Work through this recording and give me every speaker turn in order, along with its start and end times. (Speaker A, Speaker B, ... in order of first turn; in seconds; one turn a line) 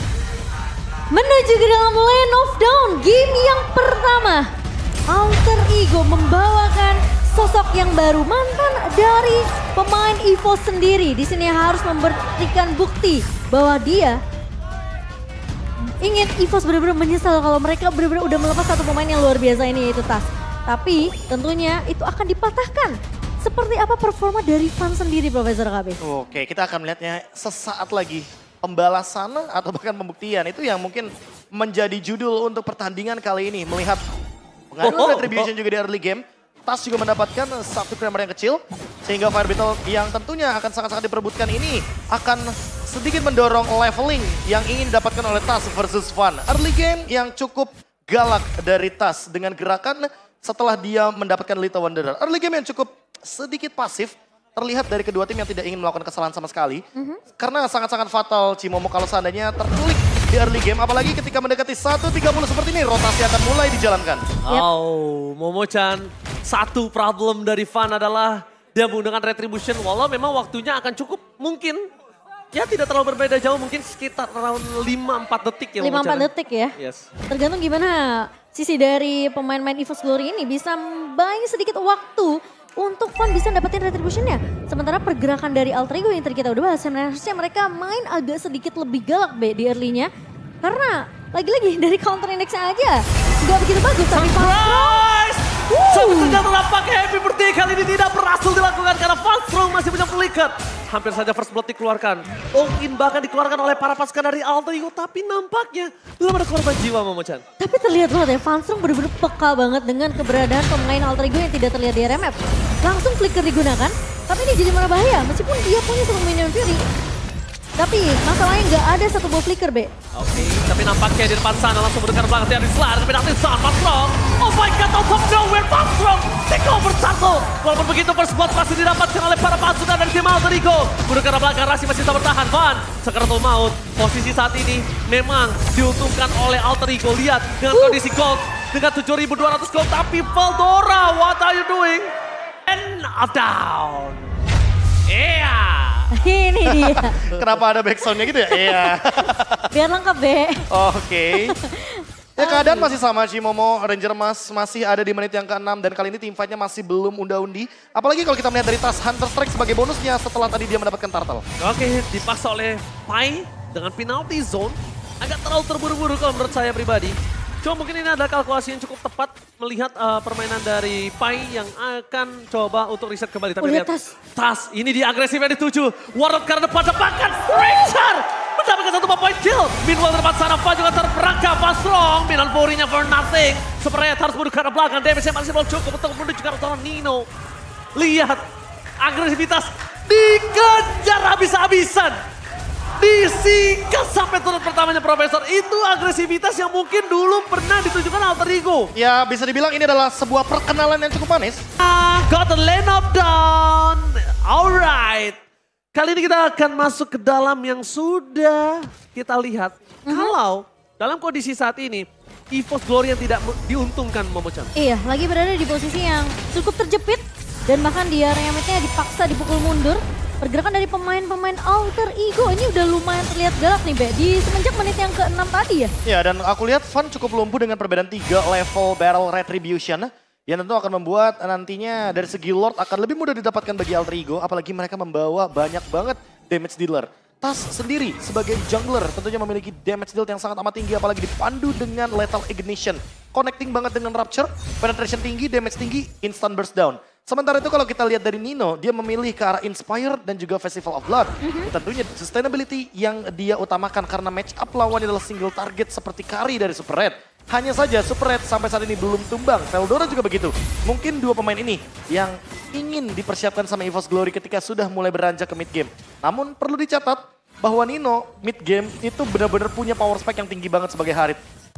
Speaker A: 1.1-4.4
Speaker A: 5.1-14.2
Speaker A: 16.0-26.0
Speaker B: 26.0-34.0
Speaker B: 34.7-56.8
Speaker C: 34.8-35.5
Speaker A: 34.9-35.1
Speaker A: 57.0-57.2
Speaker B: 57.4-64.2
Speaker C: 64.5-71.8
Speaker C: 72.5-77.1
Speaker A: 75.8-76.7
Speaker A: 77.3-90.1
Speaker A: 90.6-95.1
Speaker C: 94.0-107.4
Speaker A: 95.7-96.4
Speaker A: 107.6-116.8
Speaker A: 117.8-119.9
Speaker C: 120.2-142.1
Speaker A: 137.7-138.0
Speaker C: 142.7-144.3
Speaker C: 145.1-146.1
Speaker A: 146.1-147.2
Speaker B: 146.7-149.7
Speaker C: 147.2-147.5
Speaker A: 148.2-150.6
Speaker B: 150.7-151.6
Speaker A: 151.3-152.9
Speaker B: 152.4-161.4
Speaker C: 161.6-187.3
Speaker A: 173.6-174.1
Speaker C: 187.9-188.4
Speaker C: 189.0-192.2
Speaker C: 193.0-198.9
Speaker B: 198.9-201.6
Speaker C: 201.8-205.4
Speaker C: 205.9-214.7
Speaker A: 210.1-210.3
Speaker A: 214.8-225.9
Speaker B: 226.0-271.4
Speaker A: 251.4-251.7